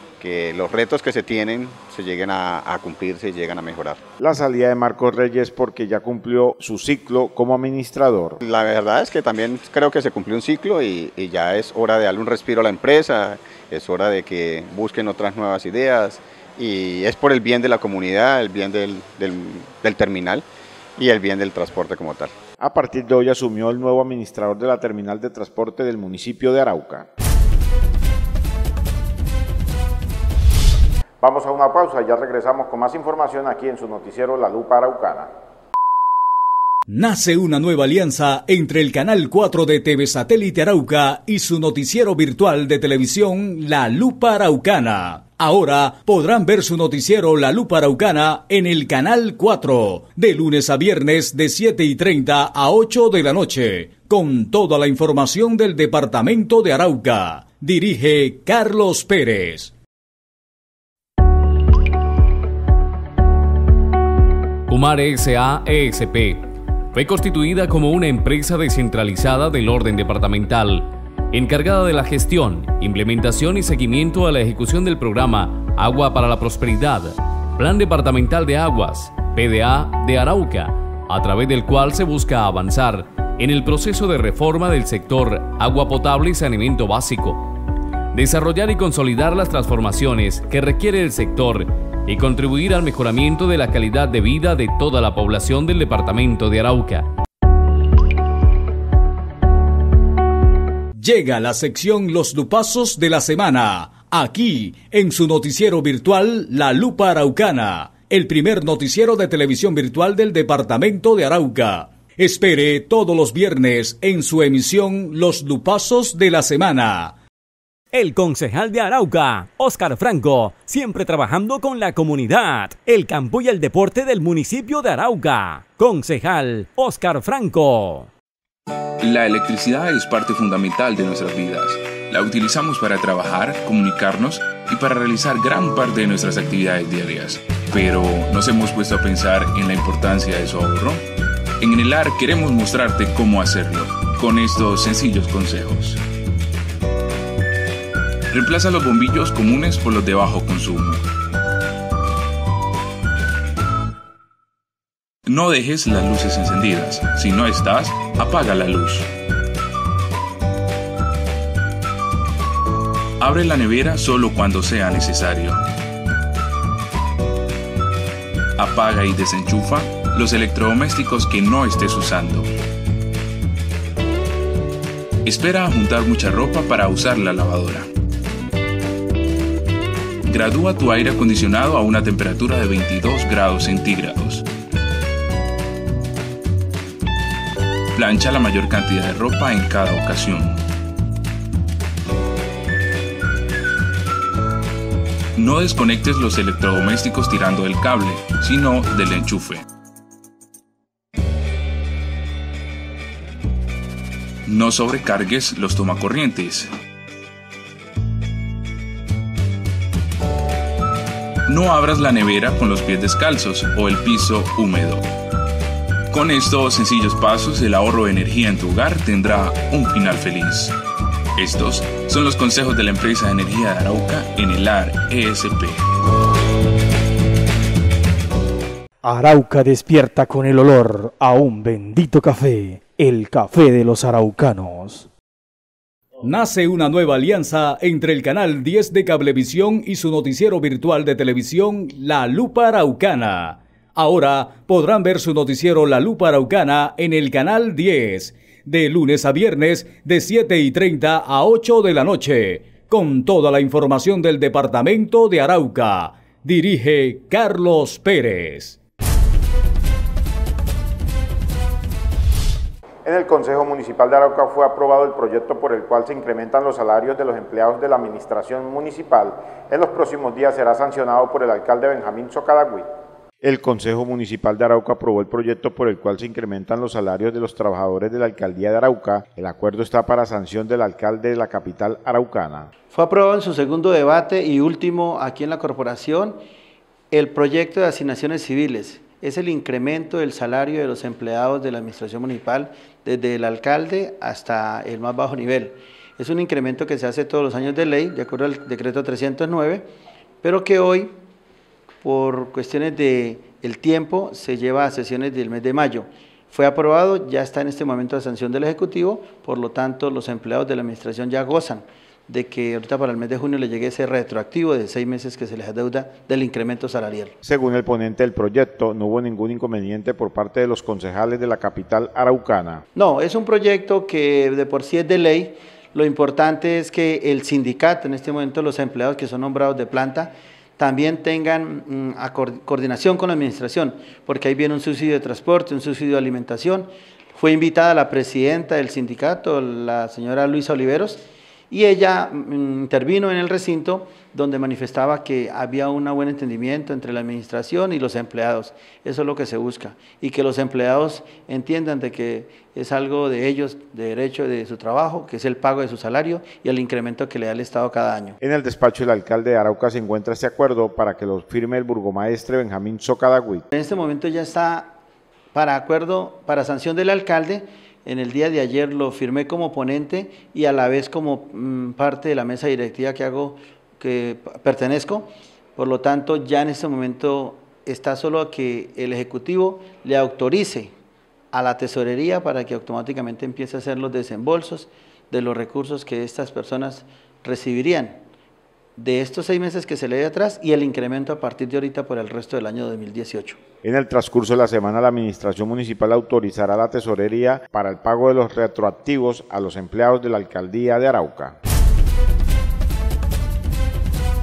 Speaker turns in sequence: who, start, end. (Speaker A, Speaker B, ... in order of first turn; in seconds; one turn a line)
Speaker A: 0.2-4.0
Speaker B: 4.2-8.4
Speaker A: 8.4-20.4
Speaker A: 21.0-22.3
Speaker B: 22.6-27.1
Speaker B: 31.2-35.3
Speaker C: 36.9-59.7
Speaker D: 64.7-66.4
Speaker D: 66.9-87.4
Speaker D: 88.1-97.1
Speaker C: 101.0-117.1
Speaker E: 117.9-128.1
Speaker F: 129.0-141.0
Speaker F: 141.6-146.0
Speaker F: 148.3-151.0
Speaker F: 155.3-159.1
Speaker F: 163.2-165.6
Speaker F: 168.6-172.5
Speaker F: 175.2-177.9
Speaker F: 180.3-184.5
Speaker F: 187.9-190.6
Speaker F: 195.4-199.6
Speaker F: 204.5-206.7
Speaker F: 211.5-215.0
Speaker F: 216.1-220.8
Speaker F: 221.4-225.8
Speaker G: 229.0-235.1
Speaker C: 236.2-258.8
Speaker B: 263.1-272.9
Speaker B: 273.4-282.7
Speaker H: 282.9-286.4
Speaker H: 287.1-299.9
Speaker H: 300.4-301.1
Speaker H: 302.0-317.4
Speaker B: 317.4-322.8
Speaker H: 322.9-358.4
Speaker B: 358.4-363.7
Speaker H: 363.7-365.0
Speaker H: 365.5-380.9
Speaker H: 381.5-388.2
Speaker H: 389.0-393.6
Speaker B: 393.8-401.6